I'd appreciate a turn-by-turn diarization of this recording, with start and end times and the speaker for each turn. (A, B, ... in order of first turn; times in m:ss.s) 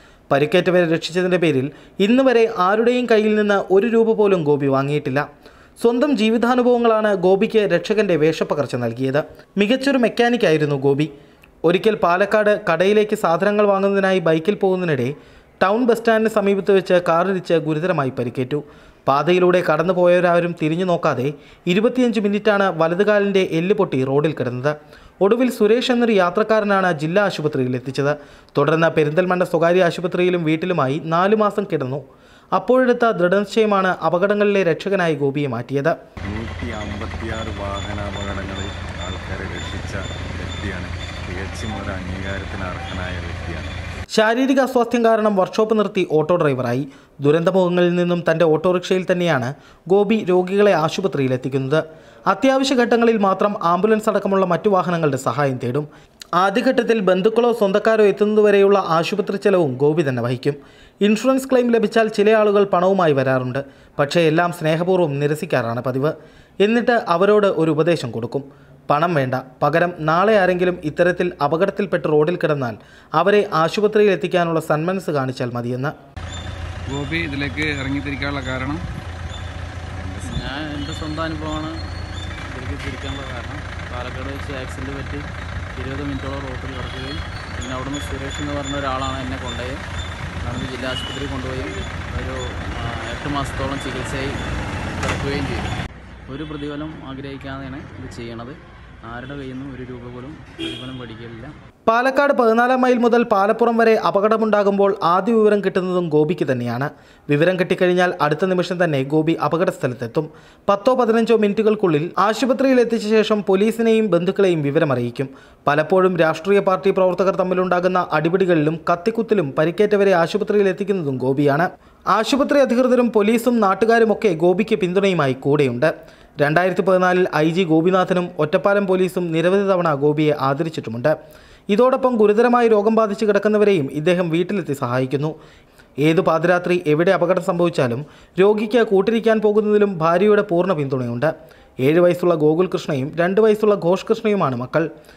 0:00.3-0:05.2 A
0:05.8-0:11.1 A
0:11.7-0:32.0 A
0:32.6-0:36.0 A
0:36.3-0:43.8 B
0:44.2-0:55.8 A
0:56.4-1:15.9 A
1:16.9-1:18.8 C
1:20.0-1:20.6 B
1:20.2-1:21.8 D
1:22.5-1:29.9 D
1:30.4-1:34.4 D
1:35.0-1:35.7 D
1:36.3-1:41.5 D
1:41.9-2:11.1 A
2:11.7-2:15.3 A
2:16.0-2:21.3 A
2:21.8-2:24.9 A